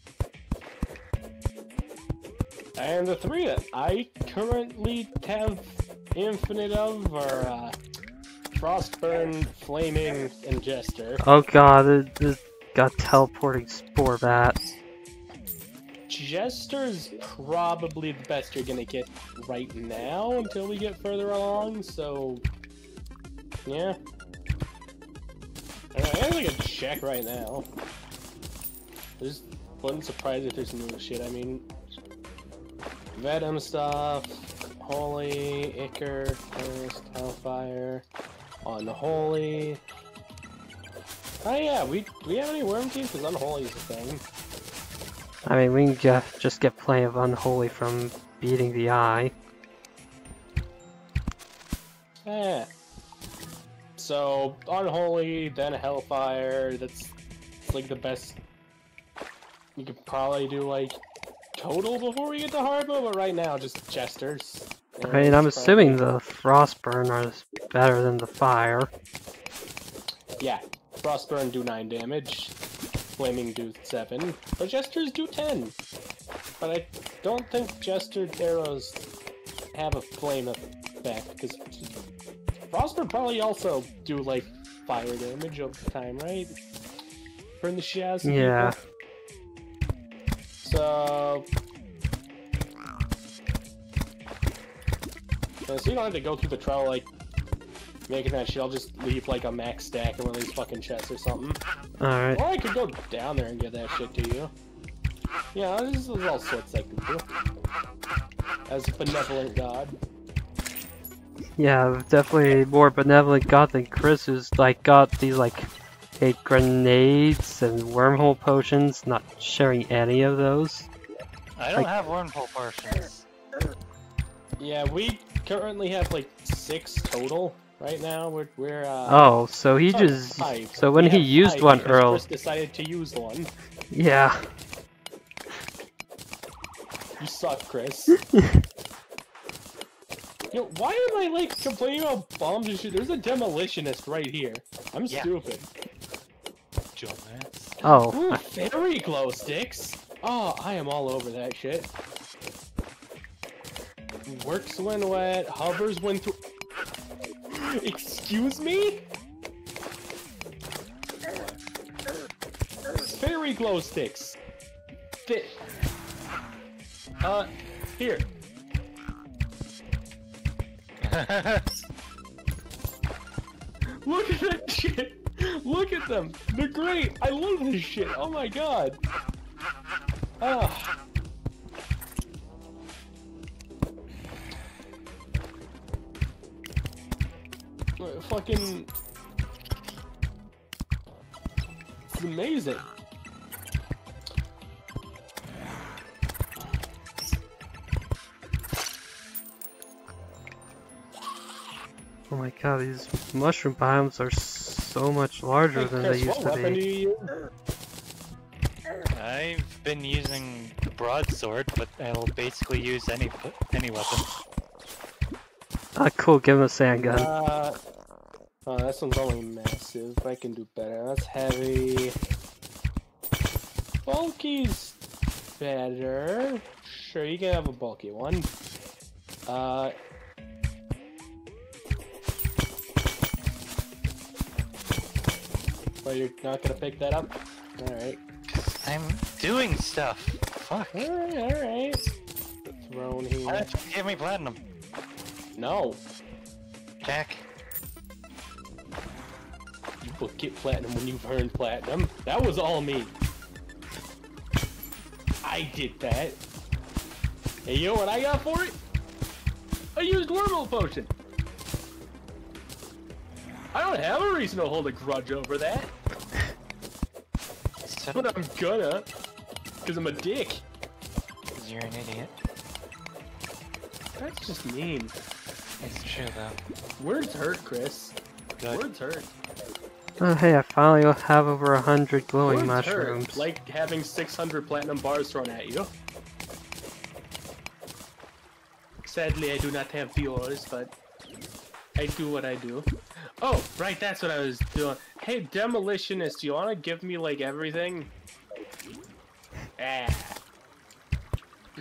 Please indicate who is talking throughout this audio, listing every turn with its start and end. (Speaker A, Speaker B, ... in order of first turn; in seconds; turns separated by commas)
Speaker A: 2.8-7.8, Speaker A: 8.5-11.2, Speaker B: 11.2-14.6, Speaker A: 16.1-22.4, Speaker A: 23.6-24.0, Speaker A: 25.9-27.7, Speaker A: 29.2-31.7, Speaker A: 33.1-38.0, Speaker A: 38.6-39.8, Speaker A: 41.4-44.2, Speaker B: 45.4-49.3, Speaker A: 52.2-52.7, Speaker A: 54.0-57.1, Speaker A: 57.7-58.4, Speaker A: 59.8-61.0, Speaker A: 61.5-66.0, Speaker B: 65.1-68.9, Speaker A: 70.4-72.5, Speaker A: 73.2-75.8, Speaker A: 76.6-79.0, Speaker A: 79.7-81.9, Speaker A: 82.7-86.5, Speaker A: 87.6-88.7, Speaker B: 88.2-88.8, Speaker A: 90.6-91.5, Speaker A: 95.7-97.1, Speaker A: 98.1-101.6, Speaker B: 102.0-102.4, Speaker A: 102.3-104.5, Speaker A: 105.5-107.3, Speaker A: 108.7-109.9, Speaker B: 111.6-120.9, Speaker C: 121.6-123.2, Speaker A: 124.6-129.3, Speaker B: 129.1-132.2, Speaker A: 129.9-133.5, Speaker B: 133.9-134.5, Speaker A: 137.2-138.2, Speaker A: 140.5-145.7, Speaker C: 146.9-147.8, Speaker B: 147.8-148.4, Speaker A: 148.1-151.9, Speaker A: 154.2-156.4, Speaker A: 157.5-159.1, Speaker A: 163.1-164.4, Speaker A: 165.2-165.6, Speaker A: 167.2-168.3, Speaker C: 171.0-171.8, Speaker A: 174.0-179.0, Speaker A: 180.4-180.9, Speaker A: 188.0-188.9, Speaker A: 192.1-192.8, Speaker B: 202.3-206.8, Speaker A: 205.7-207.3, Speaker C: 209.1-214.3, Speaker B: 215.9-217.3, Speaker A: 217.1-217.8, Speaker A: 218.7-222.2, Speaker A: 224.0-225.0, Speaker A: 225.6-228.5, Speaker A: 229.5-229.9, Speaker A: 236.0-238.2, Speaker C: 238.5-241.1, Speaker A: 240.9-242.0, Speaker A: 242.7-243.7, Speaker C: 243.4-244.6, Speaker A: 245.6-246.0, Speaker C: 247.0-247.4, Speaker A: 250.0-253.1, Speaker A: 255.4-256.4, Speaker A: 257.6-258.8, Speaker A: 259.9-261.1, Speaker A: 263.7-265.9, Speaker C: 267.8-268.3, Speaker A: 268.1-269.1, Speaker A: 269.8-270.6, Speaker C: 271.5-272.3, Speaker A: 274.2-275.1, Speaker C: 275.8-276.6, Speaker A: 277.0-278.2, Speaker A: 278.7-279.3, Speaker B: 280.2-283.4, Speaker A: 282.4-285.9, Speaker A: 289.0-290.9, Speaker A: 292.0-298.1, Speaker A: 299.8-300.4